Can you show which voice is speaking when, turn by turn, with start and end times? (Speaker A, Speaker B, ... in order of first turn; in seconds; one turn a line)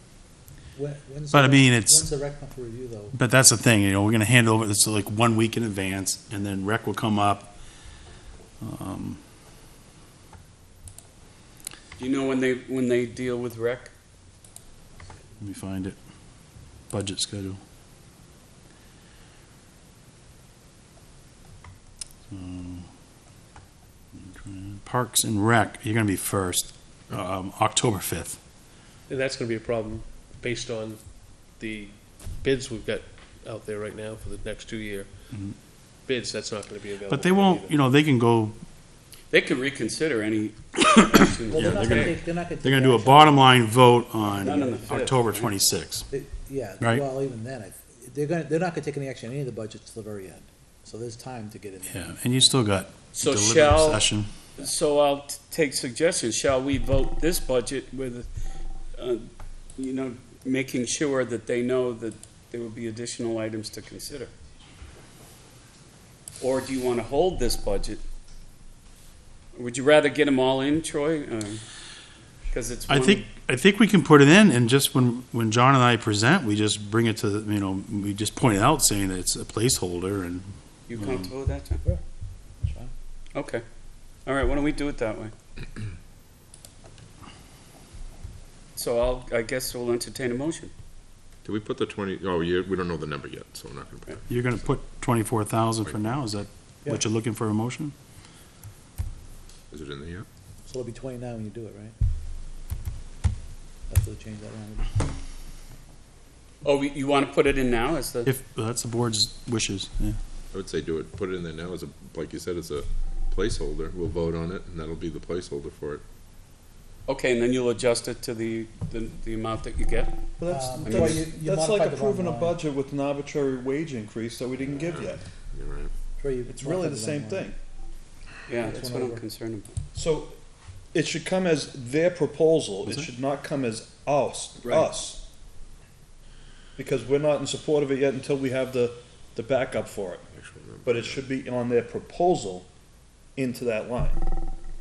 Speaker A: 0.8-3.1
Speaker B: 1.3-2.0
Speaker B: 3.1-7.5
Speaker B: 8.6-9.2
Speaker C: 12.0-13.9
Speaker B: 15.4-16.0
Speaker B: 16.9-17.6
Speaker B: 22.3-22.9
Speaker B: 24.1-28.4
Speaker D: 29.1-31.0
Speaker D: 31.5-35.1
Speaker D: 36.0-37.7
Speaker B: 37.1-38.6
Speaker C: 39.3-42.1
Speaker A: 41.5-43.6
Speaker B: 41.5-46.0
Speaker A: 44.3-45.1
Speaker C: 44.4-45.5
Speaker A: 46.1-52.6
Speaker B: 46.8-47.0
Speaker B: 51.9-54.3
Speaker C: 53.1-58.3
Speaker C: 59.0-64.3
Speaker C: 66.4-68.0
Speaker C: 69.5-71.6
Speaker C: 72.5-73.2
Speaker B: 72.9-81.3
Speaker C: 80.9-81.8
Speaker A: 82.6-82.9
Speaker C: 83.3-83.6
Speaker C: 84.2-85.3
Speaker C: 88.7-90.7
Speaker E: 91.4-94.6
Speaker B: 94.3-97.9
Speaker E: 95.8-96.2
Speaker E: 99.7-100.3
Speaker A: 100.7-101.9
Speaker A: 103.9-105.0
Speaker C: 106.6-108.3
Speaker B: 108.2-110.2
Speaker E: 110.5-116.0
Speaker C: 117.1-120.1
Speaker F: 120.4-125.2
Speaker A: 120.5-122.6
Speaker C: 120.8-121.2
Speaker E: 124.6-125.9
Speaker A: 126.2-127.5
Speaker F: 126.5-127.5
Speaker C: 128.5-129.7
Speaker A: 128.6-129.2
Speaker F: 129.9-130.3
Speaker F: 130.9-135.2
Speaker F: 136.8-140.3
Speaker E: 140.3-141.3
Speaker F: 140.8-142.7
Speaker F: 143.3-144.2